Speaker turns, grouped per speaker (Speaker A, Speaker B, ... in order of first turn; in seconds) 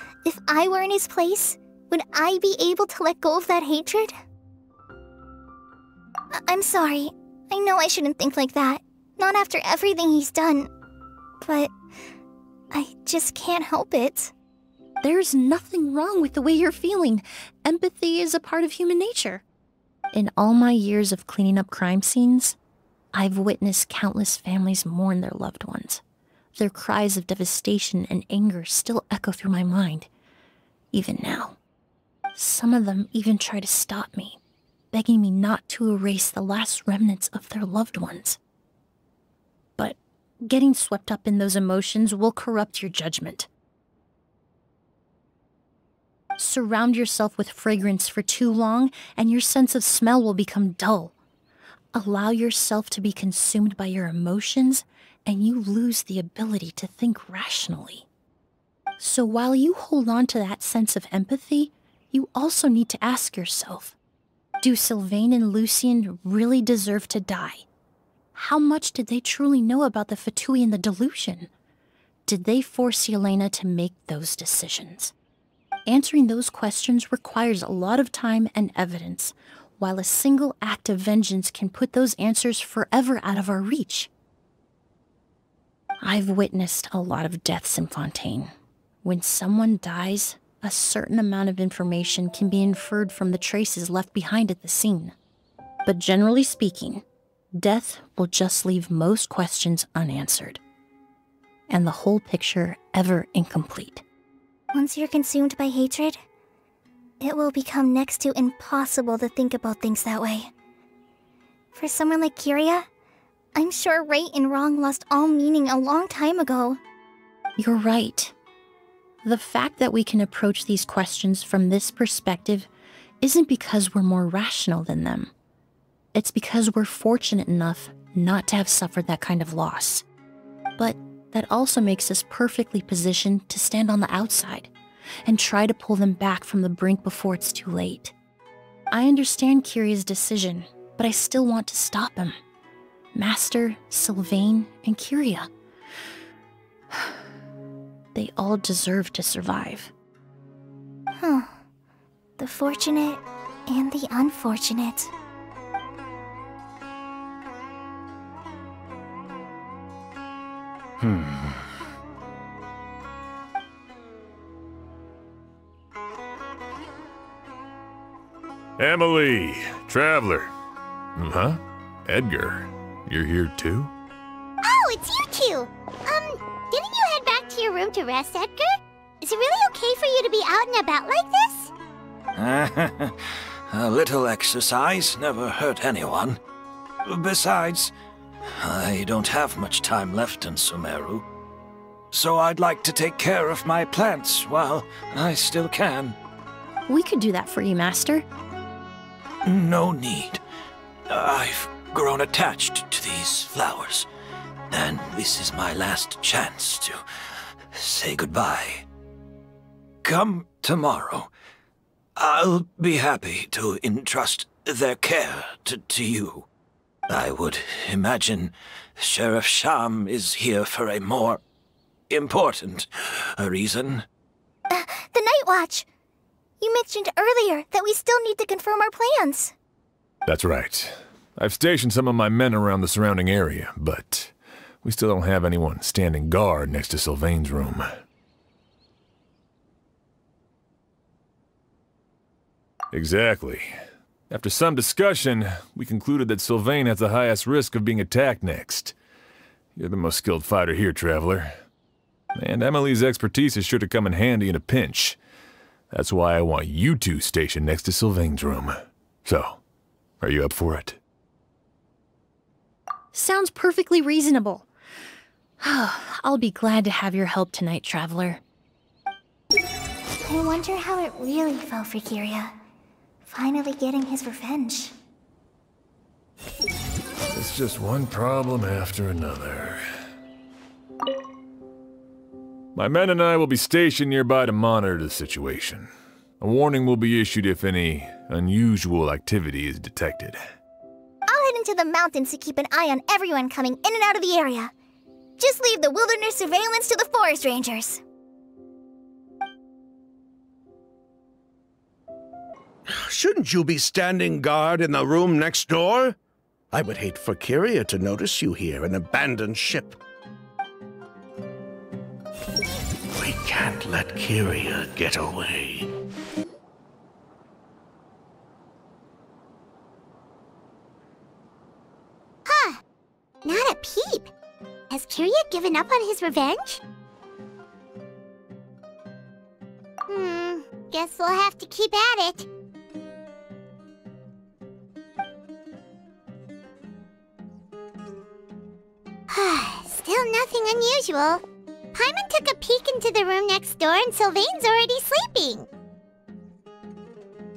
Speaker A: 0.2-4.2, 6.3-10.7, 11.4-11.7, 12.7-14.3, 104.7-106.2, 107.2-110.5, 111.7-112.9, 113.5-116.8, 151.2-151.6, 152.4-155.1, 224.7-225.9, 226.6-229.5, 270.2-272.5, 273.2-274.9, 291.3-294.7, 295.4-298.0
Speaker B: 15.0-19.4, 20.1-22.6, 23.1-26.0, 26.6-30.1, 30.9-31.6, 32.3-34.4, 34.9-38.4, 39.8-43.5, 46.4-51.1, 51.9-58.0, 59.0-64.0, 64.6-67.6, 68.3-71.5, 72.3-75.1, 75.8-84.1, 86.0-88.5, 89.0-95.1, 95.8-97.0, 97.6-100.6, 101.7-104.0, 117.6-118.3, 119.2-122.7, 123.2-125.3, 126.1-130.0, 130.8-134.7, 135.2-138.1, 138.9-142.4, 143.1-145.5, 146.9-147.2, 148.1-149.9, 196.9-198.2, 263.1-264.6, 265.6-268.4
Speaker C: 161.0-161.6, 168.8-170.5, 171.2-173.9, 230.3-237.9, 242.9-243.7, 244.3-248.9, 249.8-251.5, 252.3-255.2, 255.9-259.6, 260.2-261.0, 277.3-279.8, 282.7-285.9, 286.4-290.4
Speaker D: 174.6-181.7, 322.4-322.8, 323.4-324.3, 324.9-326.8, 330.1-332.5, 339.3-341.4, 341.9-345.7
Speaker E: 182.3-186.4, 187.0-187.9, 188.6-191.2, 192.1-196.2, 199.4-200.4, 201.1-204.1, 204.7-207.0, 207.7-208.8, 210.0-211.3, 212.2-216.4, 217.1-221.4, 222.1-224.0
Speaker F: 302.9-306.1, 306.7-310.0, 313.1-315.9